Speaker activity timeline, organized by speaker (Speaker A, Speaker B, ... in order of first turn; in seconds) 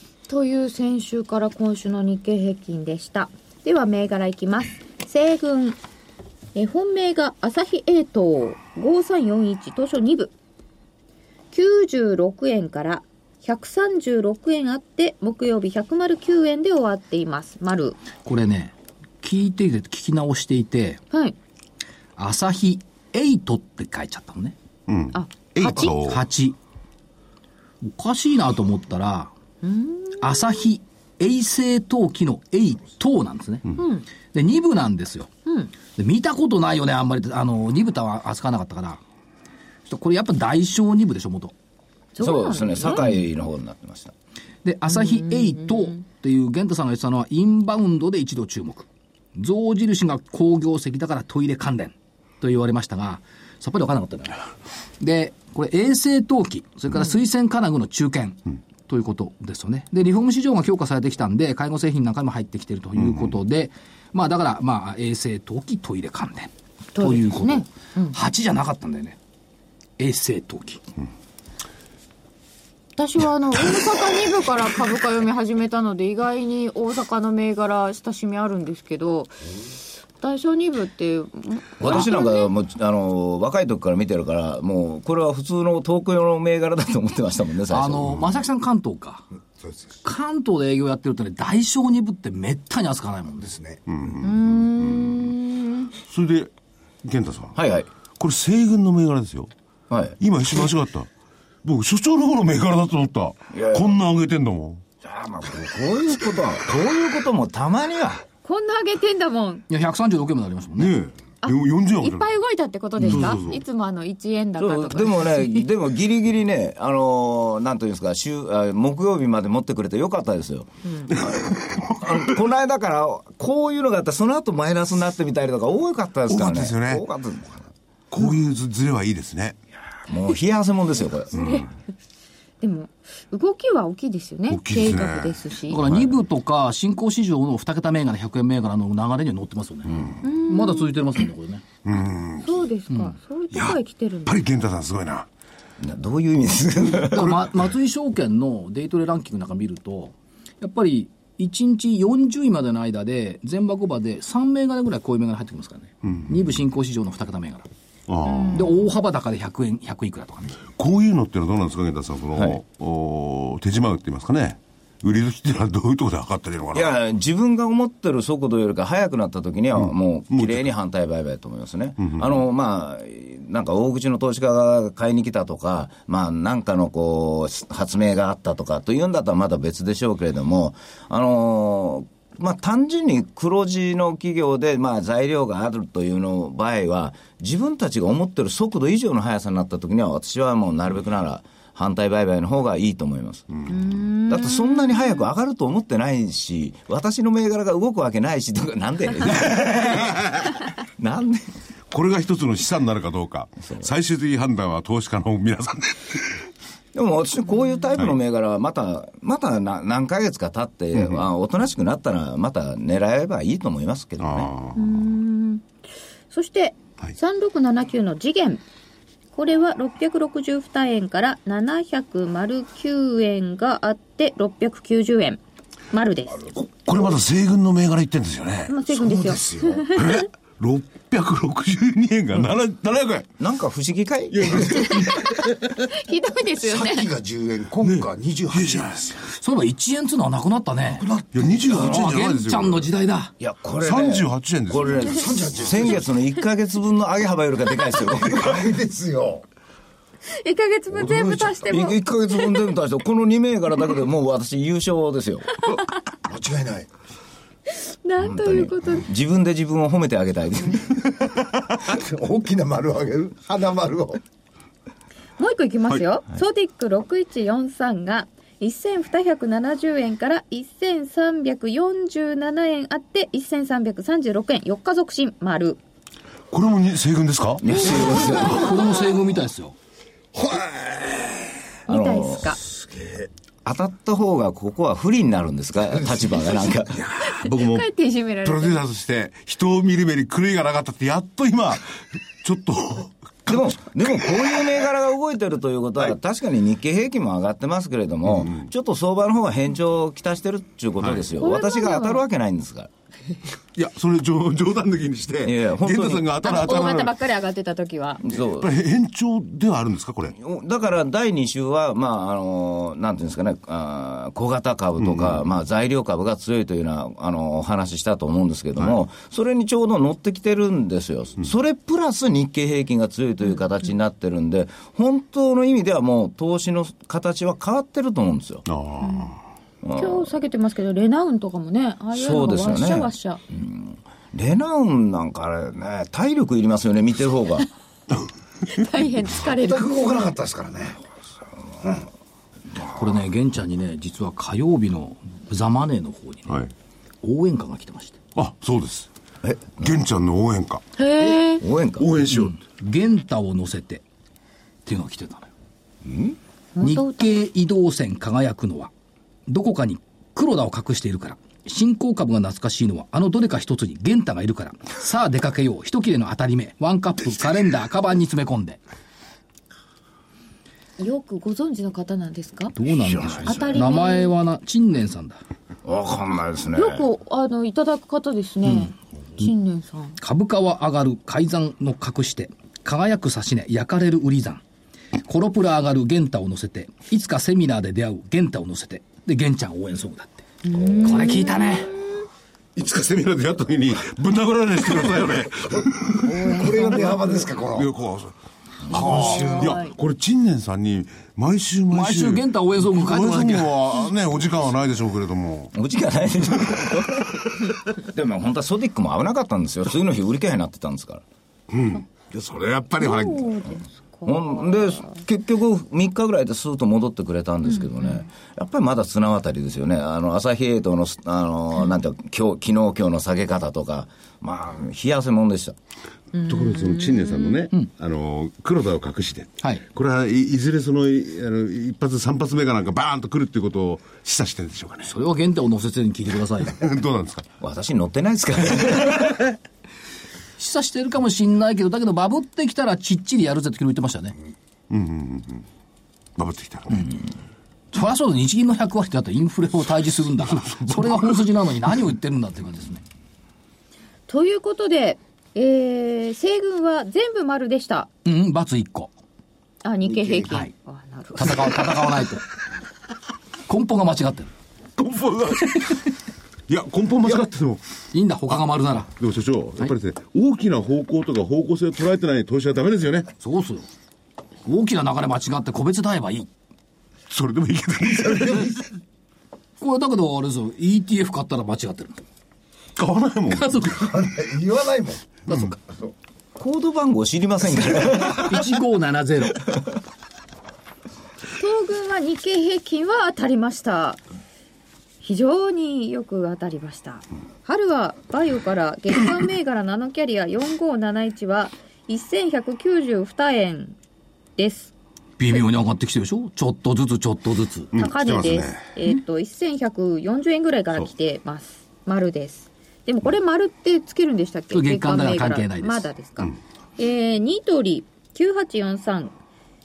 Speaker A: 0.3-5.8, 6.5-10.3, 11.5-18.0, 21.1-21.4, 25.1-26.0, 29.6-30.6, 33.8-34.1, 35.5-35.7, 42.2-43.2, 44.9-46.0, 66.9-68.2, 73.0-79.7, 80.2-82.5, 94.2-95.9, 108.4-109.7, 111.4-115.7, 120.9-121.1, 131.3-131.7, 132.6-135.8, 140.2-141.0, 142.4-144.4, 158.2-158.9, 193.7-195.3, 214.8-215.7, 216.3-218.6, 219.3-225.4, 225.9-226.5, 228.7-230.2, 235.8-237.1, 250.3-252.7, 257.7-259.1, 265.4-275.8, 277.7-279.1, 281.9-282.6, 287.3-288.8, 301.4-302.2, 306.4-308.2, 329.0-329.3, 330.0-333.4, 338.7-340.2, 351.0-351.6, 356.8-357.4, 371.0-372.8, 373.4-374.3, 376.8-380.1, 390.6-392.1, 396.2-397.4, 399.1-399.9, 413.0-415.2, 417.8-418.2, 426.3-427.7, 454.3-458.1, 459.8-462.1, 491.6-494.2, 495.2-504.0, 504.6-504.9, 507.9-519.3
Speaker B: 18.2-21.0, 22.2-24.6, 25.8-26.6, 27.8-29.3, 30.2-35.3, 35.9-39.0, 39.9-41.5, 44.6-54.5, 55.0-69.2, 70.0-70.8, 87.7-89.3, 90.0-93.5, 109.7-111.0, 113.0-113.3, 135.7-141.7, 147.1-157.7, 158.5-160.6, 239.3-241.1, 241.7-243.3, 278.3-279.8, 342.9-346.6, 347.2-348.2, 352.3-354.0, 354.9-355.5, 356.8-358.9, 359.5-368.8, 372.7-375.4, 378.7-379.5, 380.2-384.6, 385.2-390.5, 391.0-391.9, 401.9-403.8, 435.1-436.8, 440.6-444.4, 447.9-453.0, 458.2-459.1, 461.4-462.5, 463.7-464.5, 468.1-469.1, 473.4-473.9, 474.7-476.5, 479.8-482.2, 483.5-484.1, 488.4-489.7, 505.4-507.9, 514.7-516.1
Speaker C: 24.9-26.2, 93.9-95.2, 96.0-96.5, 97.0-97.6, 98.2-99.5, 100.2-101.1, 101.6-104.8, 110.8-112.3, 113.0-113.6, 121.2-122.0, 126.3-127.0, 128.1-129.6, 131.4-131.7, 134.5-136.1, 141.8-142.6, 143.5-145.3, 156.0-156.3, 158.1-158.7, 160.8-166.9, 169.8-170.7, 172.0-172.3, 201.9-206.3, 211.0-211.2, 214.2-214.9, 226.7-228.8, 229.9-233.3, 234.3-235.8, 237.8-239.2, 241.3-242.8, 243.8-245.6, 276.5-277.6, 280.4-281.3, 287.0-287.9, 288.4-293.7, 298.3-298.6, 301.0-301.3, 303.8-307.1, 308.5-310.4, 315.0-315.4, 328.7-329.4, 348.4-349.1, 349.8-350.8, 352.0-352.6, 392.8-396.5, 397.7-398.3, 398.9-405.7, 411.7-413.4, 426.5-435.1, 436.8-437.5, 444.9-445.6, 446.4-447.1, 450.6-451.3, 465.0-466.0, 466.7-467.8, 469.1-473.3, 477.3-478.8, 483.0-483.9, 485.5-485.7, 507.9-508.9
Speaker D: 42.2-44.1, 81.8-88.2, 97.5-97.9, 99.9-100.2, 103.5-104.0, 105.0-108.2, 114.6-120.7, 122.0-127.7, 130.1-131.4, 145.8-147.4, 166.7-193.7, 194.3-201.5, 206.9-214.5, 233.4-235.1, 243.4-248.6, 251.7-255.5, 258.2-261.0, 277.6-278.6, 281.9-282.6, 283.6-287.0, 293.5-302.9, 305.4-306.4, 308.2-308.7, 310.4-328.7, 329.8-330.3, 332.1-337.7, 349.4-349.9, 351.2-352.1, 356.1-356.4, 373.0-373.8, 375.9-377.1, 405.8-411.2, 414.3-425.8, 437.6-439.4, 486.6-488.6
Speaker E: 89.6-90.0, 93.4-93.8, 228.9-229.9, 236.6-239.1, 240.9-241.9, 245.0-246.1, 248.2-249.5, 250.9-251.8, 256.3-256.9, 261.8-264.2, 339.4-341.0, 396.5-397.9, 398.9-399.7, 460.1-460.5, 478.1-478.8, 483.9-485.4